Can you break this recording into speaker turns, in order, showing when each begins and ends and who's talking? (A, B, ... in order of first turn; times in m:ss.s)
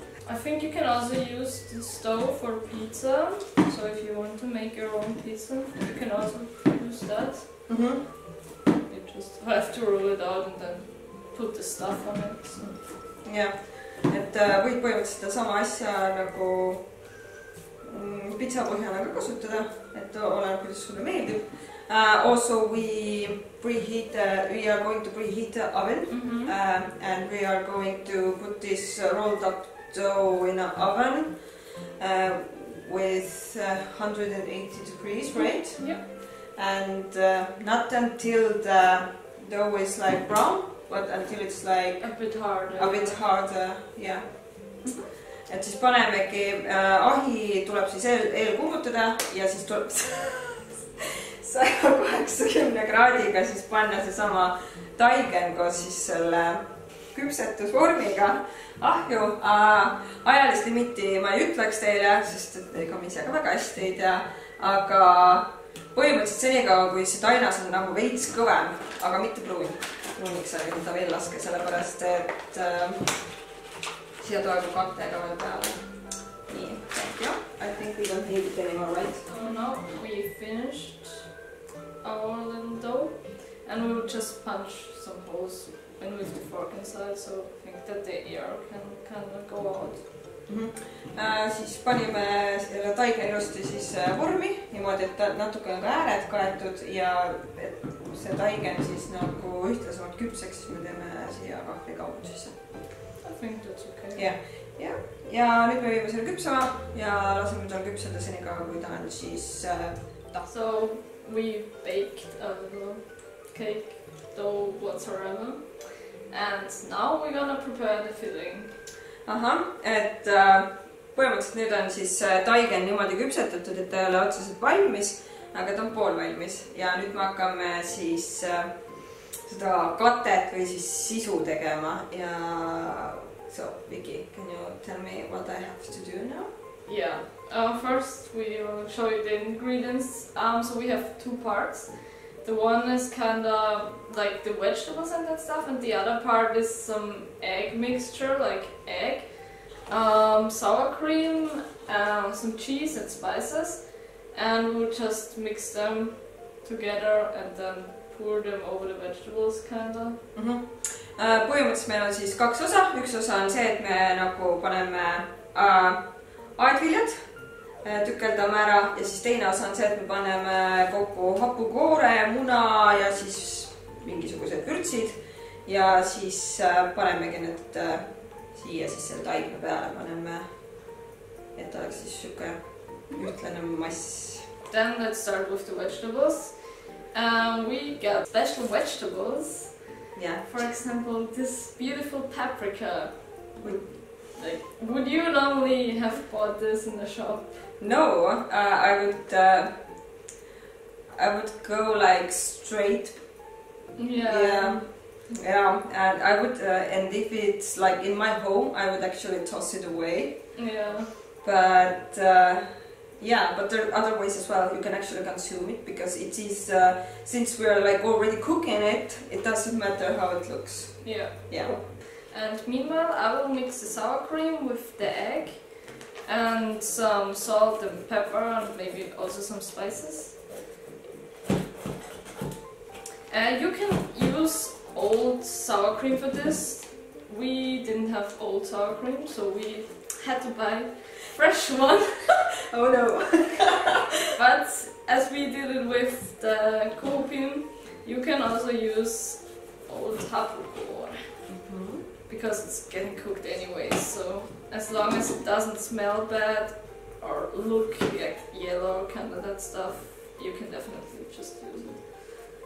0:00.2-0:07.7 A
0:07.7-0:08.0 B
0:08.8-0:12.7 A
0:12.6-0:17.1 B
0:17.8-1:13.3 B
0:26.1-0:26.5 A
0:35.3-0:36.0 A
0:42.0-0:43.2 A
1:14.2-1:19.4 B
1:19.2-1:21.3 A
1:22.0-1:30.0 A
1:30.5-1:42.6 B
1:43.2-1:44.3 A
1:44.1-1:50.5 B
1:50.5-1:58.7 A
1:59.2-2:16.5 B
2:16.8-2:40.2 A
2:40.3-3:04.5 B
3:04.7-3:17.6 A
3:10.1-3:10.6 B
3:13.6-3:13.9 B
3:17.8-3:20.2 B
3:21.1-3:23.5 B
3:24.0-3:24.8 A
3:24.2-3:30.8 B
3:30.5-3:31.1 A
3:31.4-3:41.8 B
3:41.0-3:50.4 A
3:53.3-4:02.5 A
4:02.7-4:04.0 B
4:04.3-4:11.4 A
4:11.5-4:12.0 B
4:12.2-4:22.0 A